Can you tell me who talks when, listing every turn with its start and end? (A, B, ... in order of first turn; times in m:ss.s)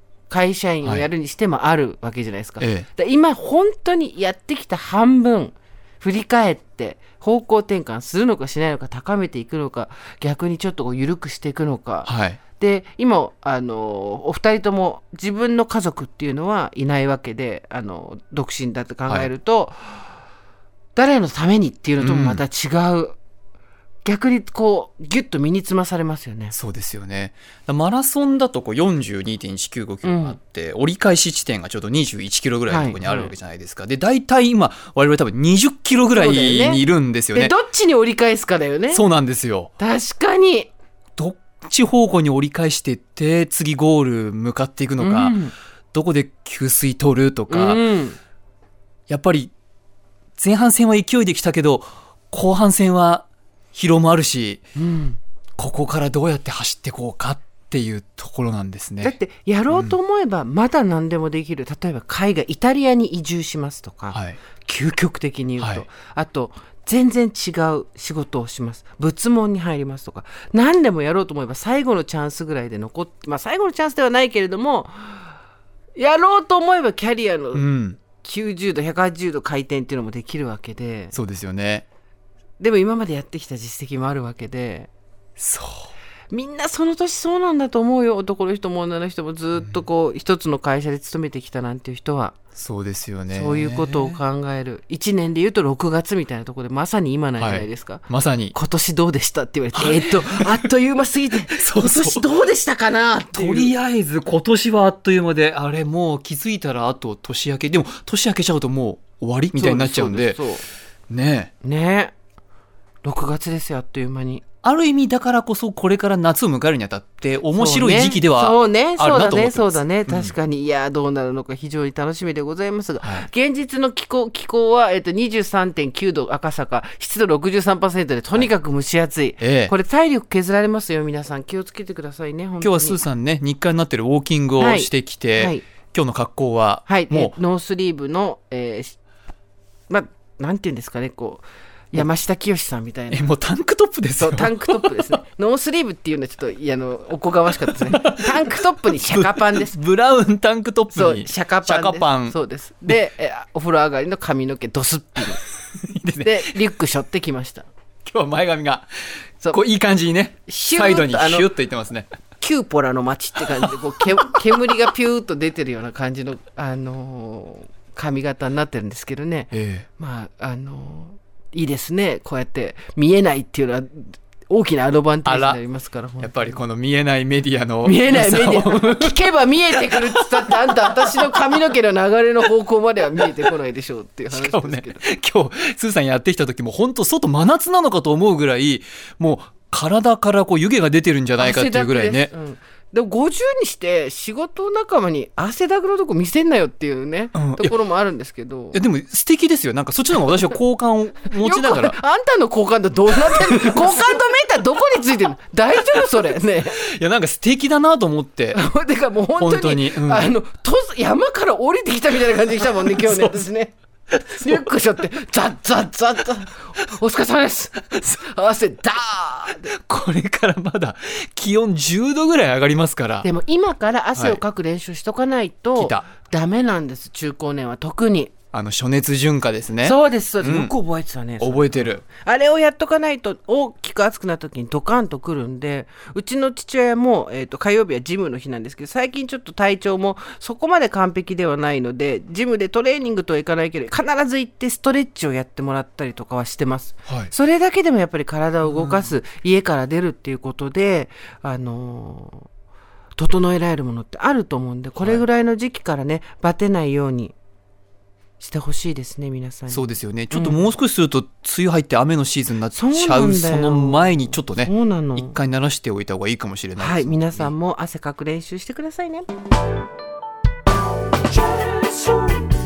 0:00.3-0:20.0 A
0:00.8-0:01.1 B
0:02.6-0:02.9 B
0:12.0-0:12.4 B
0:20.9-0:23.2 A
0:22.0-0:22.4 B
0:24.0-0:26.5 A
0:26.5-0:37.5 B
0:30.0-0:30.4 A
0:32.7-0:33.3 A
0:36.1-0:36.8 A
0:37.3-0:39.0 A
0:38.9-0:39.7 B
0:39.8-0:40.7 A
0:41.2-0:45.4 B
0:45.0-0:45.5 A
0:45.9-0:47.8 B
0:47.5-0:48.2 A
0:49.1-0:49.5 B
0:50.4-0:54.6 B
0:54.8-0:55.2 A
0:55.6-0:59.1 B
0:59.0-1:15.3 A
0:59.7-1:00.0 B
1:04.1-1:04.4 B
1:05.6-1:05.8 B
1:15.9-1:17.6 A
1:17.5-1:18.0 B
1:18.2-1:21.1 A
1:21.1-1:21.8 B
1:22.6-1:24.9 A
1:25.4-1:25.9 B
1:26.3-1:32.3 A
1:29.6-1:29.8 B
1:32.6-1:34.2 B
1:33.3-1:43.7 A
1:37.4-1:38.5 B
1:39.7-1:40.6 B
1:41.5-1:42.2 B
1:43.3-1:50.4 B
1:49.6-1:50.6 A
1:51.1-1:51.5 B
1:51.6-1:52.1 A
1:53.0-1:54.4 A
1:54.6-2:00.3 B
1:57.5-2:13.0 A
2:03.0-2:03.3 B
2:09.4-2:09.7 B
2:12.6-2:17.3 B
2:14.6-2:15.6 A
2:16.8-2:19.0 A
2:19.9-2:23.3 A
2:23.1-2:25.2 B
2:24.2-2:29.8 A
2:27.8-2:32.4 B
2:30.9-2:35.4 A
2:35.7-2:36.6 B
2:36.2-2:37.7 A
2:38.0-2:38.9 B
2:39.5-2:42.0 B
2:40.5-2:41.5 A
2:42.4-2:56.6 A
2:49.5-2:49.8 B
2:55.2-2:55.6 B
2:56.2-3:01.5 B
2:57.8-3:05.0 A
3:04.3-3:12.3 B
3:11.4-3:18.8 A
3:17.3-3:17.7 B
3:18.7-3:22.0 B
3:21.4-3:26.8 A
3:23.3-3:24.1 B
3:26.8-3:28.6 B
3:28.5-3:33.7 A
3:29.4-3:30.3 B
3:32.9-3:33.4 B
3:34.3-3:39.7 A
3:34.4-3:34.6 B
3:39.6-3:43.3 B
3:43.2-3:48.3 A
3:44.1-3:44.4 B
3:45.8-3:46.1 B
3:48.5-3:50.7 B
3:49.8-4:12.5 A
3:51.4-3:52.0 B
4:07.0-4:07.3 B
4:08.6-4:09.1 B
4:13.2-4:17.3 A
4:18.4-4:20.7 A
4:19.7-4:27.5 B
4:22.7-4:25.4 A
4:26.8-4:29.3 A
4:31.8-4:32.4 A